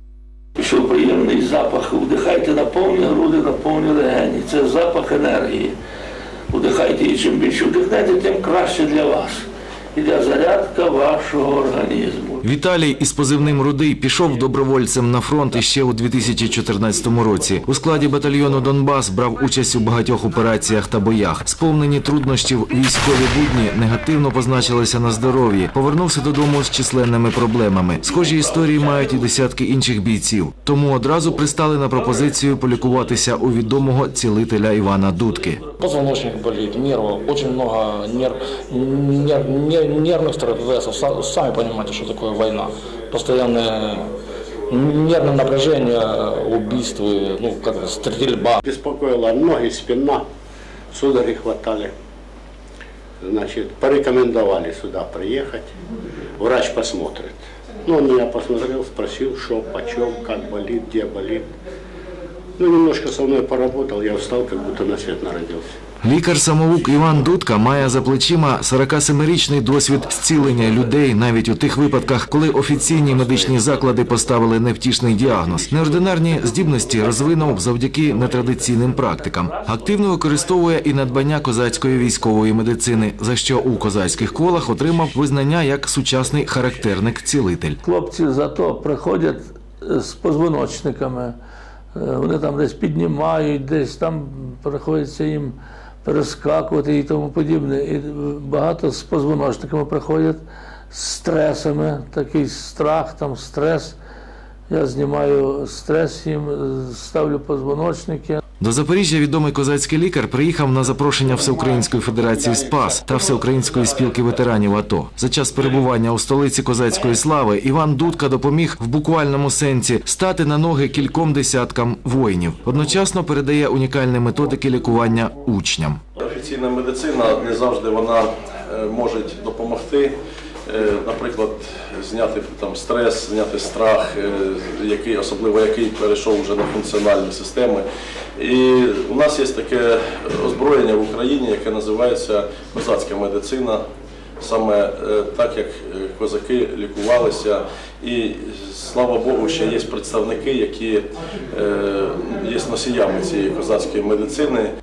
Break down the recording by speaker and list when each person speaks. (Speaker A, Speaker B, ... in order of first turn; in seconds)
Speaker A: 0.6-5.7, 6.5-12.4, 87.8-91.3, 91.9-104.0, 104.7-108.4
Speaker B: 12.4-35.6, 66.0-87.8, 108.6-126.0
Speaker C: 35.8-44.0, 44.7-48.6
Speaker D: 48.6-50.2, 50.9-51.9, 53.2-55.7, 56.4-61.5, 62.6-65.7
Speaker E: 126.2-130.2, 130.7-137.8, 138.4-143.8, 144.4-154.7